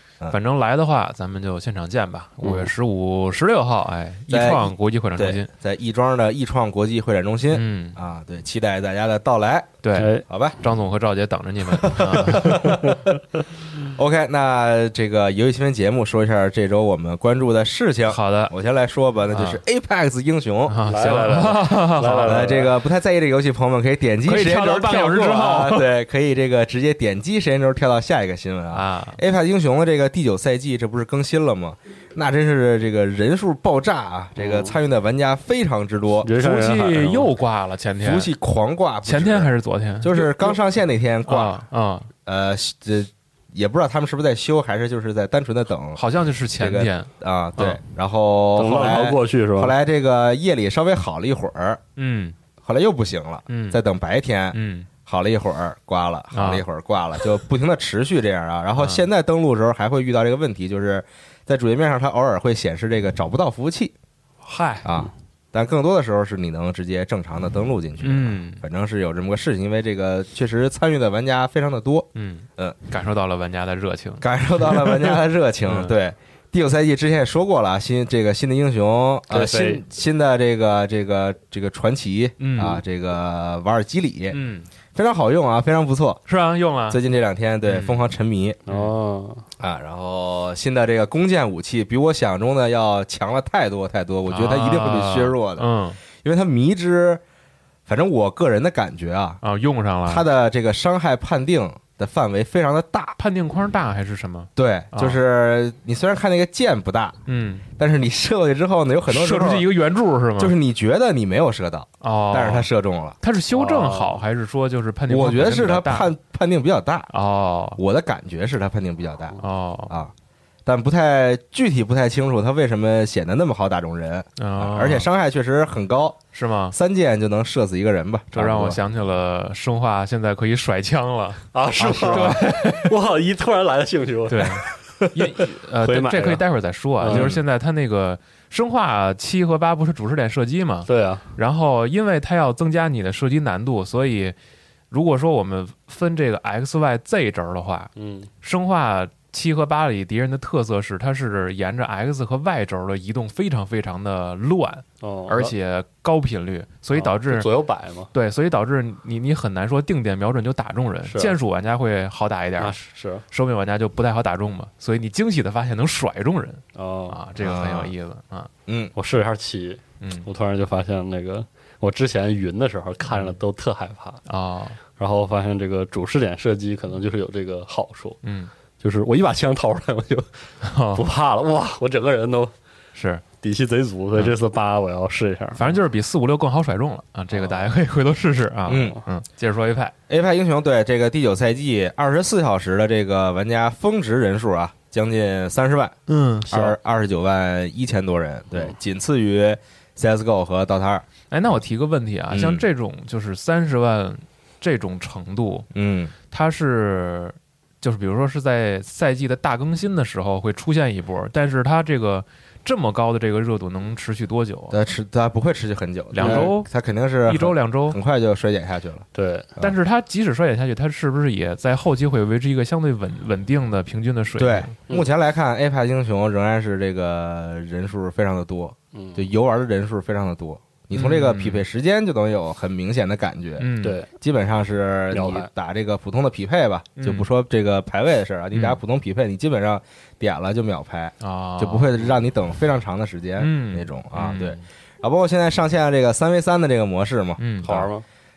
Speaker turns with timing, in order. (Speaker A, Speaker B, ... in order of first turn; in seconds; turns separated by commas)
Speaker A: 0.3-5.5, Speaker B: 2.4-2.7, Speaker C: 4.3-9.8, Speaker A: 7.5-8.0, Speaker A: 9.8-12.8, Speaker B: 9.9-10.2, Speaker C: 10.3-10.6, Speaker C: 11.7-13.0, Speaker C: 13.8-20.8, Speaker A: 18.1-18.5, Speaker A: 19.3-19.6, Speaker A: 20.7-22.4, Speaker B: 20.8-22.8, Speaker C: 22.2-36.3, Speaker A: 24.2-25.9, Speaker A: 28.7-29.2, Speaker B: 34.4-34.8, Speaker B: 36.2-37.3, Speaker A: 36.4-38.3, Speaker C: 38.0-41.6, Speaker A: 39.0-40.5, Speaker A: 41.2-42.1, Speaker C: 42.2-46.0, Speaker A: 46.0-47.8, Speaker C: 46.6-51.8, Speaker B: 48.5-49.7, Speaker A: 52.0-52.3, Speaker C: 52.6-63.9, Speaker A: 53.5-53.8, Speaker A: 54.5-54.9, Speaker A: 56.3-56.6, Speaker A: 58.8-59.0, Speaker A: 64.4-64.9, Speaker C: 64.8-72.8, Speaker A: 68.0-68.6, Speaker A: 72.1-76.0, Speaker C: 74.2-84.4, Speaker B: 79.3-79.8, Speaker A: 82.4-82.8, Speaker A: 84.3-84.7, Speaker C: 84.9-86.2, Speaker A: 86.3-87.0, Speaker C: 86.9-88.6, Speaker A: 87.7-88.1, Speaker B: 88.7-89.4, Speaker C: 89.6-95.7, Speaker A: 94.3-96.0, Speaker C: 96.2-97.2, Speaker C: 97.9-99.4, Speaker A: 99.4-100.3, Speaker C: 100.0-103.2, Speaker A: 103.2-105.2, Speaker C: 104.5-107.2, Speaker A: 107.3-107.6, Speaker C: 107.8-109.7, Speaker A: 109.1-110.5, Speaker C: 110.4-113.2, Speaker A: 112.0-112.7, Speaker A: 113.2-116.1, Speaker B: 113.5-114.2, Speaker C: 115.1-117.1, Speaker A: 117.1-117.8, Speaker C: 117.8-120.1, Speaker A: 119.4-120.0, Speaker C: 120.7-126.2, Speaker A: 124.4-125.1, Speaker A: 126.3-126.8, Speaker C: 126.7-128.8, Speaker A: 128.3-132.9, Speaker B: 131.5-136.4, Speaker C: 132.1-132.4, Speaker A: 134.3-144.3, Speaker B: 137.0-137.3, Speaker C: 137.1-137.4, Speaker B: 140.8-141.2, Speaker A: 144.9-147.9, Speaker B: 147.9-148.3, Speaker A: 148.4-157.5, Speaker B: 155.0-155.5, Speaker B: 156.9-158.1, Speaker A: 158.1-162.8, Speaker B: 161.1-161.3, Speaker B: 162.6-163.2, Speaker A: 163.3-168.5, Speaker B: 166.7-167.2, Speaker C: 167.4-167.9, Speaker C: 168.7-168.9, Speaker B: 168.9-174.2, Speaker A: 170.0-170.3, Speaker A: 173.1-173.4, Speaker A: 174.3-174.8, Speaker B: 175.0-178.2, Speaker A: 178.2-178.5, Speaker B: 178.8-180.3, Speaker A: 180.6-181.0, Speaker B: 180.9-182.5, Speaker A: 182.9-183.2, Speaker B: 183.4-185.8, Speaker A: 185.6-189.9, Speaker B: 187.3-187.7, Speaker C: 188.7-189.0, Speaker C: 190.1-195.9, Speaker A: 196.1-196.7, Speaker C: 196.5-201.0, Speaker A: 201.3-205.7, Speaker C: 202.3-202.6, Speaker C: 205.7-206.1, Speaker A: 206.3-214.8, Speaker C: 214.7-219.7, Speaker A: 216.1-216.7, Speaker B: 216.2-216.5, Speaker A: 217.2-218.0, Speaker B: 219.1-219.5, Speaker A: 219.6-224.7, Speaker C: 224.4-247.9, Speaker B: 228.9-229.3, Speaker A: 230.9-231.6, Speaker A: 233.6-234.0, Speaker B: 233.8-234.1, Speaker B: 235.1-235.5, Speaker A: 237.0-237.3, Speaker A: 238.5-238.8, Speaker A: 241.2-242.0, Speaker A: 243.4-244.6, Speaker A: 247.4-247.9, Speaker B: 247.6-248.0